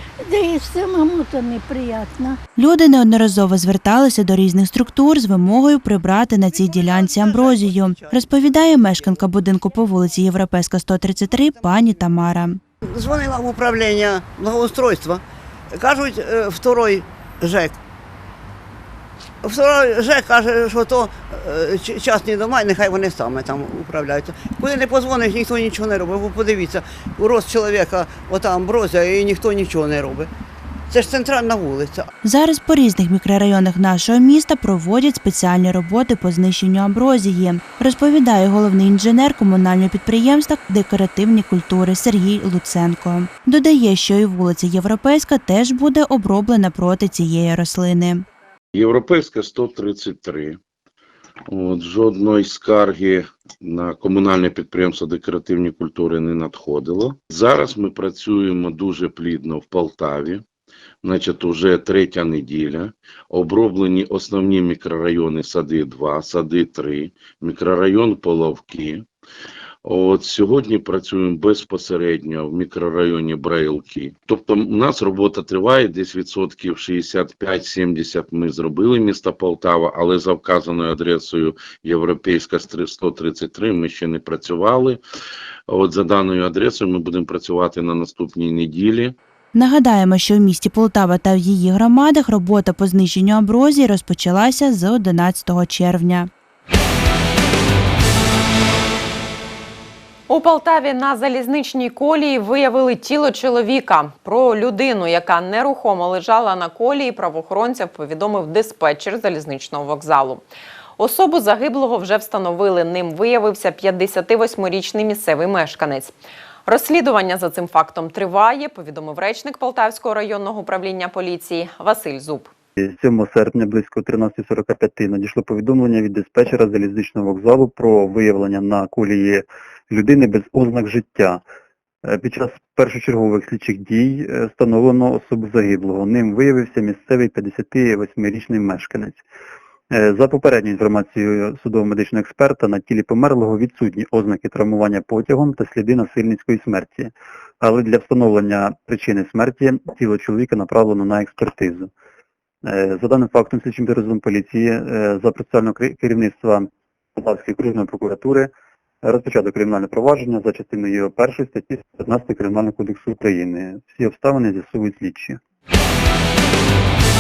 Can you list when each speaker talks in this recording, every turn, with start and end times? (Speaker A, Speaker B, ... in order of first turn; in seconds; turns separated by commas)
Speaker A: 0.3-2.4, Speaker B: 2.5-12.6, Speaker C: 6.6-8.1, Speaker C: 12.9-15.2, Speaker C: 15.7-17.7, Speaker C: 19.4-30.3, Speaker C: 30.9-32.1, Speaker B: 32.2-48.2, Speaker D: 48.7-50.6, Speaker D: 51.5-60.4, Speaker D: 61.0-69.0, Speaker D: 69.8-85.0, Speaker D: 85.7-89.1, Speaker B: 89.5-96.3, Speaker E: 100.3-110.4, Speaker E: 111.0-116.1, Speaker E: 116.7-122.5, Speaker F: 122.8-131.4, Speaker F: 132.0-139.2, Speaker F: 139.9-151.9, Speaker F: 152.6-158.5, Speaker F: 159.0-165.4